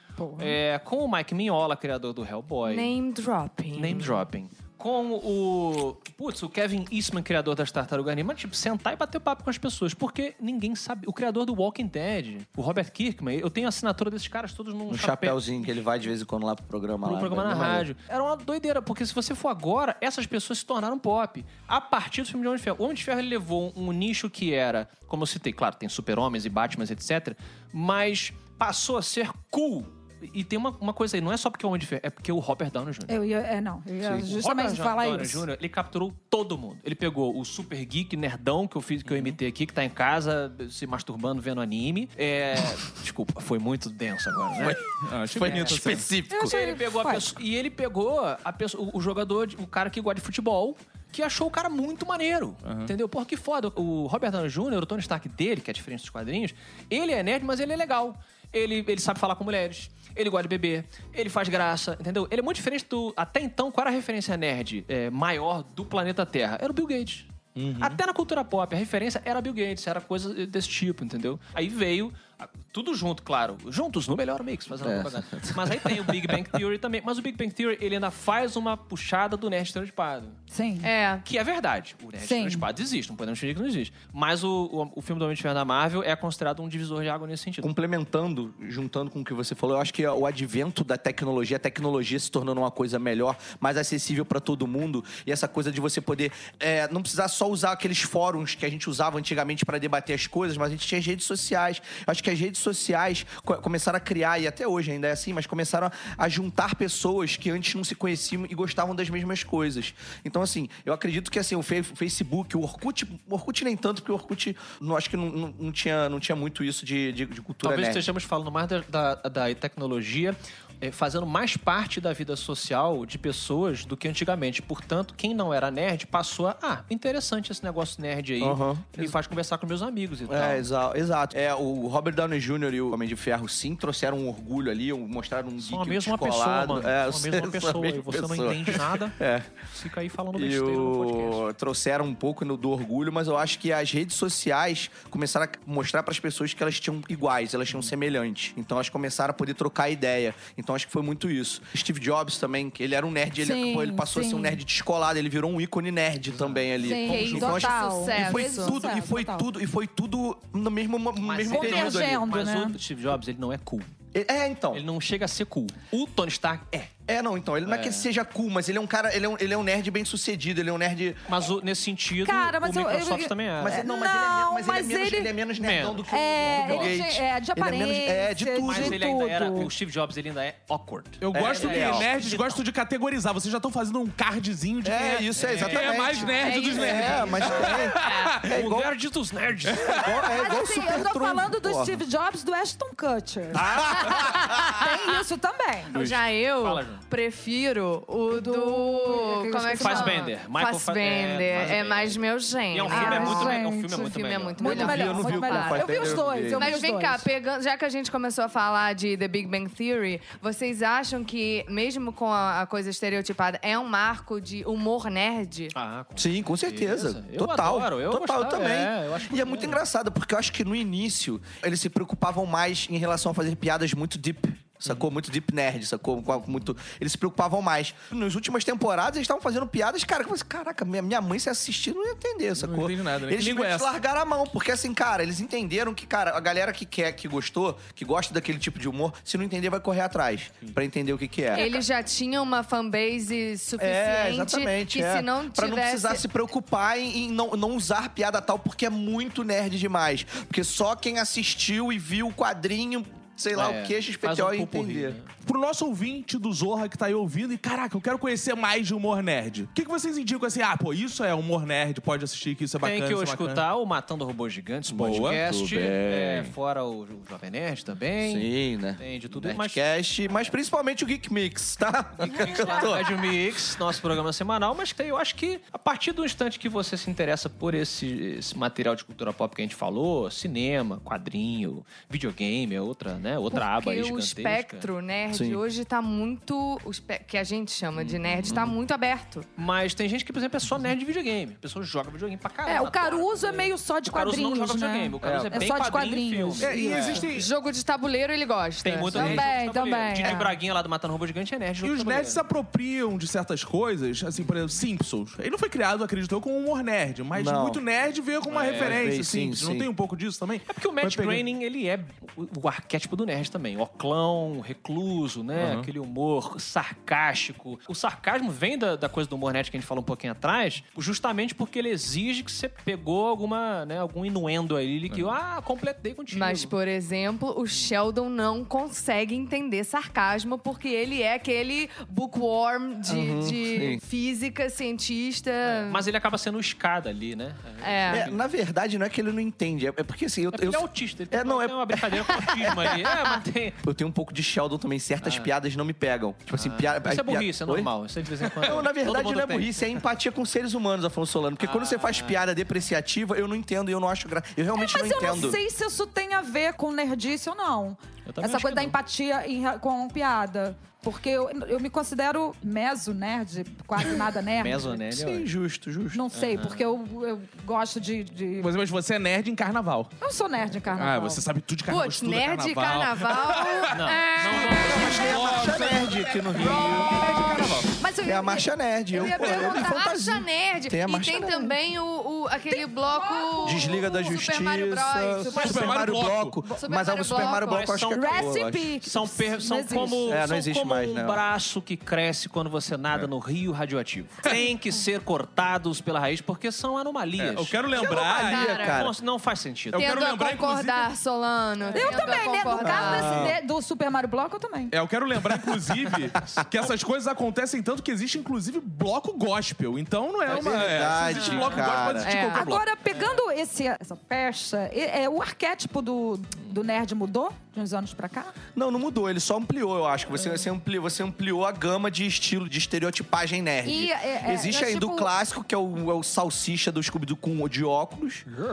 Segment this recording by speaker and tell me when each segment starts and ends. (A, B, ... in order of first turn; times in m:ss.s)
0:00.2-0:00.6 A
0:00.4-0:02.9 B
0:02.6-0:04.2 C
0:03.8-0:15.4 B
0:14.9-0:17.9 D
0:17.0-0:33.2 B
0:33.1-0:35.5 A
0:34.0-1:20.4 B
0:39.1-0:39.4 E
0:44.6-0:46.6 D
0:44.9-0:46.1 E
0:46.3-0:47.3 A
0:52.6-0:52.9 E
1:07.6-1:08.0 E
1:14.8-1:16.4 D
1:20.5-1:20.9 A
1:20.8-1:21.2 C
1:21.2-1:27.7 B
1:22.2-1:22.6 A
1:27.6-1:58.1 D
1:57.6-2:10.7 B
2:08.4-2:09.1 D
2:10.3-2:19.5 D
2:15.6-2:19.2 B
2:19.7-2:21.5 B
2:20.4-2:42.3 D
2:33.4-2:34.6 A
2:36.8-2:39.5 A
2:37.0-2:38.9 C
2:41.2-2:43.9 B
2:41.5-2:42.8 A
2:44.1-2:44.8 D
2:44.7-2:46.9 B
2:47.1-2:51.3 D
2:47.6-2:48.1 B
2:51.3-2:53.9 B
2:52.2-2:55.4 A
2:53.6-2:59.0 D
2:55.6-2:57.0 B
2:56.1-2:59.7 A
2:58.6-3:02.6 B
3:01.2-3:08.5 E
3:01.3-3:02.1 D
3:04.8-3:08.9 D
3:05.3-3:06.2 B
3:06.4-3:08.4 C
3:08.4-3:10.1 B
3:09.7-3:10.1 E
3:09.9-3:12.0 D
3:10.2-3:16.0 A
3:13.5-3:14.1 B
3:14.0-3:14.9 C
3:15.9-3:35.7 C
3:16.6-3:17.0 B
3:18.3-3:20.3 A
3:19.8-3:25.2 B
3:22.9-3:27.3 A
3:24.6-3:26.8 D
3:35.7-3:39.8 B
3:36.2-4:01.7 D
3:52.6-3:53.9 E
4:01.5-4:06.2 C
4:03.8-4:15.2 D
4:13.5-4:15.3 B
4:15.4-4:23.6 E
4:22.8-4:29.8 B
4:25.0-4:25.4 E
4:25.0-4:26.5 D
4:28.2-4:33.2 D
4:32.2-4:44.9 B
4:43.5-4:49.5 C
4:45.3-4:45.6 D
4:48.0-4:48.7 B
4:49.6-4:57.3 B
4:52.6-4:57.3 A
4:55.2-4:55.7 D
4:56.6-4:57.5 E
4:57.2-4:59.6 C
4:58.8-5:02.4 B
4:59.1-5:00.6 A
5:01.8-5:11.4 E
5:07.3-5:07.8 D
5:08.5-5:09.1 B
5:08.7-5:09.9 D
5:10.6-5:26.7 B
5:15.6-5:15.9 E
5:25.1-5:25.4 E
5:26.3-5:36.1 C
5:33.0-5:34.0 D
5:35.6-5:38.4 B
5:37.8-5:38.3 C
5:38.1-5:42.9 D
5:40.5-5:43.8 B
5:43.8-5:47.9 D
5:45.2-5:45.5 B
5:46.5-5:49.9 B
5:48.6-5:55.6 D
5:51.6-5:52.4 B
5:54.8-6:04.9 A
5:58.3-5:59.0 B
6:04.6-6:05.5 B
6:04.7-6:06.2 D
6:06.1-6:08.7 A
6:06.3-6:06.9 B
6:08.6-6:10.1 E
6:10.2-6:11.4 A
6:10.9-6:18.0 E
6:11.9-6:15.5 C
6:13.9-6:15.1 B
6:14.5-6:17.3 D
6:16.5-6:17.9 C
6:17.2-6:20.0 A
6:18.2-6:21.7 D
6:19.1-6:25.8 C
6:22.7-6:24.0 A
6:23.6-6:28.9 D
6:25.4-6:26.0 A
6:25.5-6:26.6 E
6:26.8-6:27.8 C
6:27.4-6:37.8 B
6:28.1-6:30.2 A
6:30.2-6:31.4 D
6:37.4-6:38.8 E
6:37.9-6:39.1 C
6:38.0-6:39.1 D
6:38.6-6:40.1 B
6:39.9-6:41.1 E
6:40.0-6:43.6 C
6:41.9-6:44.9 A
6:42.8-6:43.6 D
6:44.9-6:52.9 E
6:50.5-6:52.3 D
6:51.3-6:51.8 B
6:52.2-6:52.7 C
6:52.3-6:58.5 A
6:58.8-7:08.5 D
7:03.8-7:05.3 A